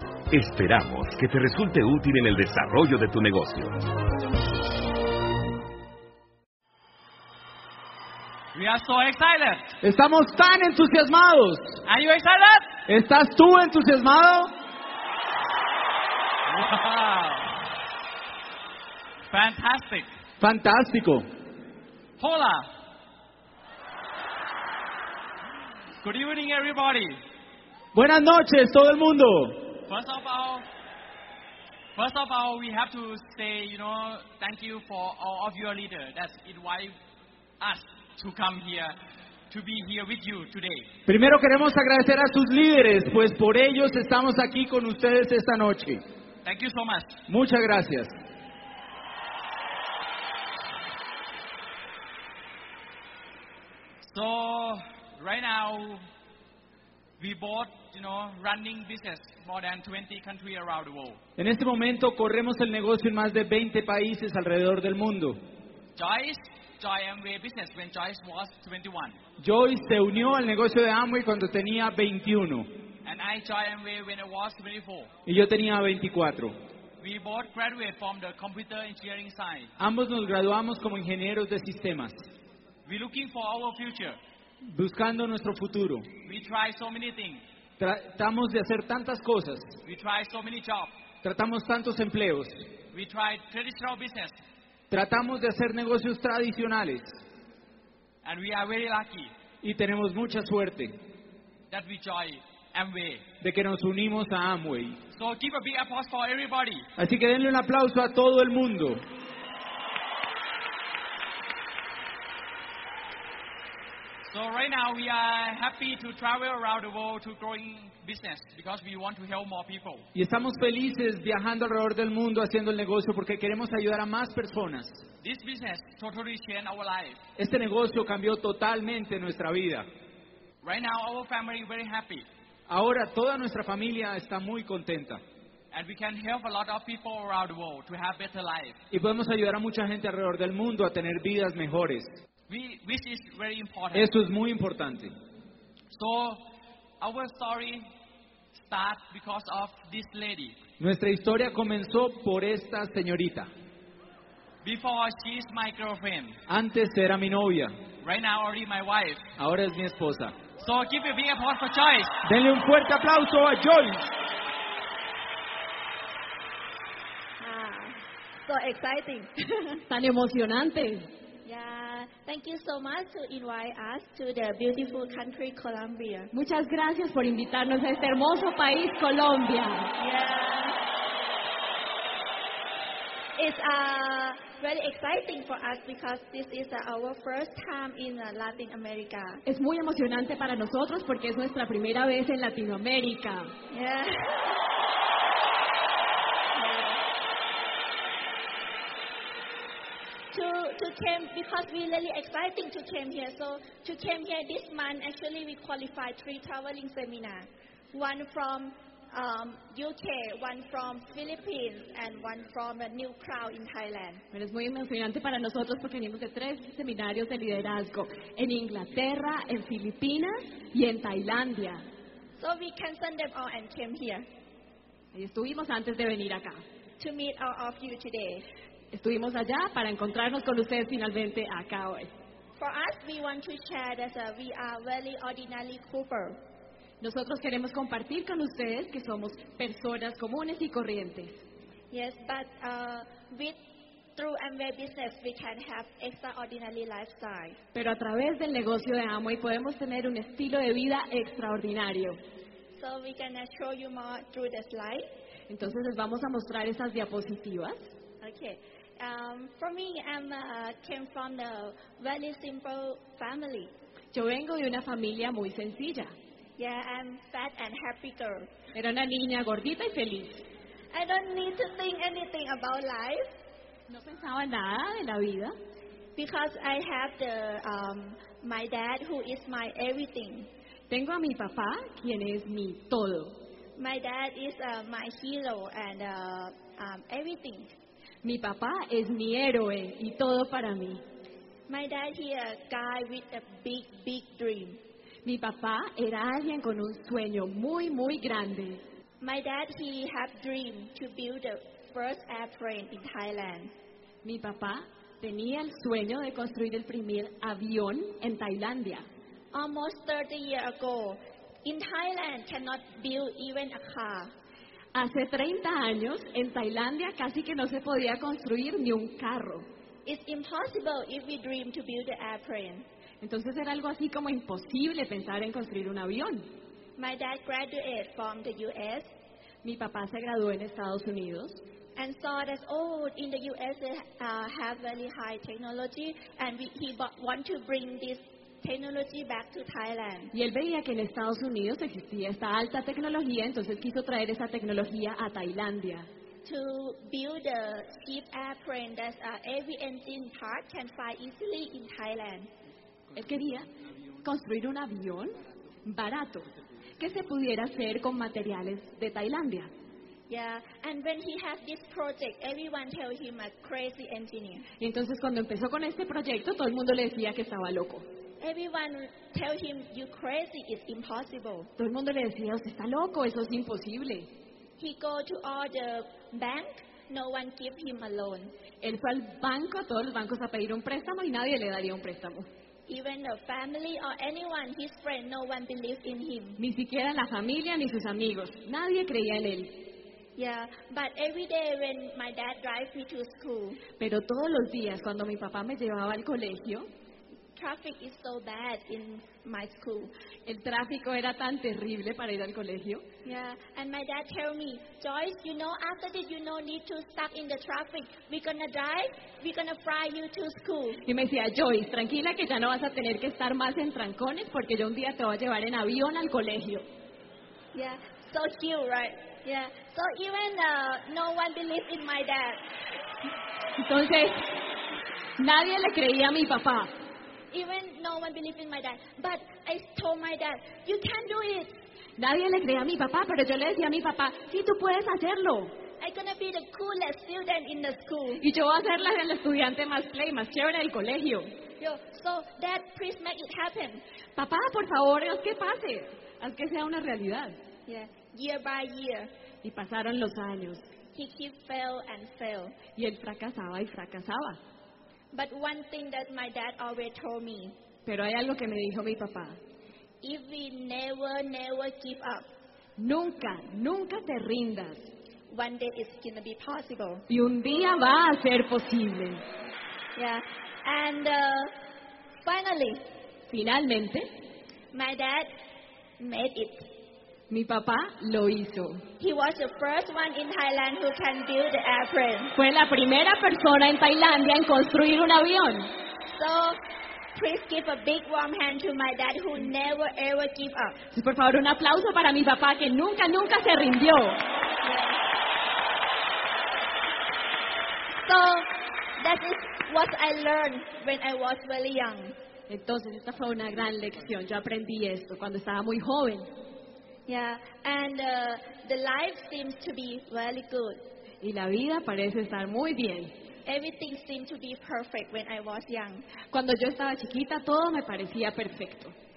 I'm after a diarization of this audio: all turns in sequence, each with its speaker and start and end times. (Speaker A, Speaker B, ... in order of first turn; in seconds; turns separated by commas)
Speaker A: 0.3-3.8, Speaker B: 8.5-9.7, Speaker C: 9.8-11.6, Speaker B: 11.8-12.7, Speaker C: 12.9-14.5, Speaker B: 16.5-17.5, Speaker B: 19.3-20.1, Speaker C: 20.4-21.2, Speaker B: 22.2-22.7, Speaker B: 26.0-27.2, Speaker C: 27.9-29.7, Speaker B: 29.9-30.6, Speaker B: 31.9-36.9, Speaker B: 37.6-38.9, Speaker B: 39.5-40.9, Speaker C: 41.0-46.0, Speaker B: 46.4-47.2, Speaker C: 47.3-48.1, Speaker B: 54.0-56.0, Speaker B: 57.2-61.2, Speaker C: 61.4-65.4, Speaker B: 66.0-69.2, Speaker C: 69.4-72.7, Speaker B: 73.0-75.1, Speaker C: 75.2-76.5, Speaker B: 77.0-79.7, Speaker C: 79.8-82.1, Speaker B: 82.8-84.2, Speaker C: 84.7-86.0, Speaker B: 86.2-87.4, Speaker C: 87.8-89.7, Speaker B: 89.8-90.9, Speaker C: 91.2-92.5, Speaker B: 92.9-94.3, Speaker C: 94.9-97.1, Speaker B: 98.2-99.3, Speaker C: 99.6-100.9, Speaker B: 101.7-103.2, Speaker C: 103.4-105.0, Speaker B: 105.1-106.9, Speaker C: 107.0-109.0, Speaker B: 114.2-120.0, Speaker C: 120.1-124.9, Speaker B: 125.2-127.2, Speaker C: 127.4-129.8, Speaker B: 130.6-132.2, Speaker C: 132.7-135.2, Speaker B: 135.7-138.8, Speaker C: 138.9-142.1, Speaker B: 142.5-144.1, Speaker C: 143.9-145.1, Speaker B: 145.9-146.4, Speaker B: 147.0-147.8, Speaker B: 148.5-150.6, Speaker C: 150.8-153.5, Speaker B: 154.6-156.4, Speaker C: 156.5-157.7, Speaker B: 158.0-159.2, Speaker C: 159.4-160.3, Speaker B: 160.6-162.2, Speaker C: 162.2-164.1, Speaker D: 167.4-169.8, Speaker E: 169.9-171.1, Speaker D: 171.4-176.3, Speaker E: 176.3-179.9, Speaker D: 180.0-180.8, Speaker D: 183.4-189.4, Speaker E: 189.4-193.5, Speaker D: 193.7-194.6, Speaker D: 196.5-197.0, Speaker D: 200.3-214.2, Speaker E: 214.3-221.8, Speaker D: 222.4-224.2, Speaker E: 225.1-226.6, Speaker D: 227.0-228.4, Speaker E: 228.9-232.1, Speaker D: 232.6-236.4, Speaker E: 237.0-241.4, Speaker D: 241.9-243.6, Speaker D: 244.2-247.6, Speaker E: 247.7-252.2, Speaker D: 252.7-255.1, Speaker E: 255.5-257.9, Speaker D: 258.2-263.7, Speaker E: 264.1-266.1, Speaker D: 266.6-268.5, Speaker E: 268.7-270.4, Speaker D: 270.9-273.3, Speaker E: 273.9-275.5, Speaker D: 276.1-280.5, Speaker E: 280.9-283.3, Speaker D: 283.8-287.7, Speaker E: 288.2-291.0, Speaker D: 291.7-294.8, Speaker E: 295.2-298.8, Speaker D: 299.2-303.7, Speaker E: 304.2-309.1, Speaker D: 309.5-314.3, Speaker E: 314.9-319.6, Speaker D: 320.1-322.8, Speaker E: 323.2-326.5, Speaker D: 327.0-329.1, Speaker E: 329.6-331.6, Speaker D: 331.9-340.3, Speaker E: 340.3-346.1, Speaker D: 346.4-352.5, Speaker E: 353.1-353.7, Speaker E: 354.2-359.7, Speaker D: 360.3-364.6, Speaker E: 364.8-368.0, Speaker D: 368.4-371.7, Speaker E: 371.8-374.3, Speaker D: 374.8-378.5, Speaker E: 378.8-382.5, Speaker D: 382.9-386.6, Speaker E: 386.6-389.8, Speaker D: 390.4-393.8, Speaker E: 394.0-396.9, Speaker D: 397.6-400.1, Speaker E: 400.4-403.0, Speaker D: 403.2-411.0, Speaker E: 411.0-416.9, Speaker D: 417.7-422.6, Speaker E: 423.8-424.6, Speaker E: 425.4-426.9, Speaker D: 427.5-431.7, Speaker E: 432.2-435.7, Speaker D: 436.0-438.4, Speaker E: 438.4-441.5, Speaker D: 441.8-444.0, Speaker E: 444.4-447.6, Speaker D: 447.9-449.3, Speaker E: 449.6-450.9, Speaker D: 451.1-452.8, Speaker E: 452.9-454.6, Speaker D: 455.3-457.7, Speaker E: 458.1-459.6, Speaker D: 460.2-462.4, Speaker E: 463.0-465.1, Speaker D: 465.5-467.2, Speaker E: 467.3-469.4, Speaker D: 470.1-471.7, Speaker D: 472.4-473.0, Speaker E: 473.5-474.3, Speaker D: 474.9-475.5, Speaker D: 476.2-476.9, Speaker E: 477.5-479.0, Speaker D: 479.2-482.5, Speaker E: 482.5-485.9, Speaker D: 486.3-486.8, Speaker D: 487.3-490.9, Speaker E: 491.1-494.4, Speaker D: 494.8-495.2, Speaker D: 498.2-502.3, Speaker E: 502.7-506.5, Speaker D: 507.3-511.0, Speaker E: 511.4-513.3, Speaker D: 513.6-516.2, Speaker E: 516.5-519.1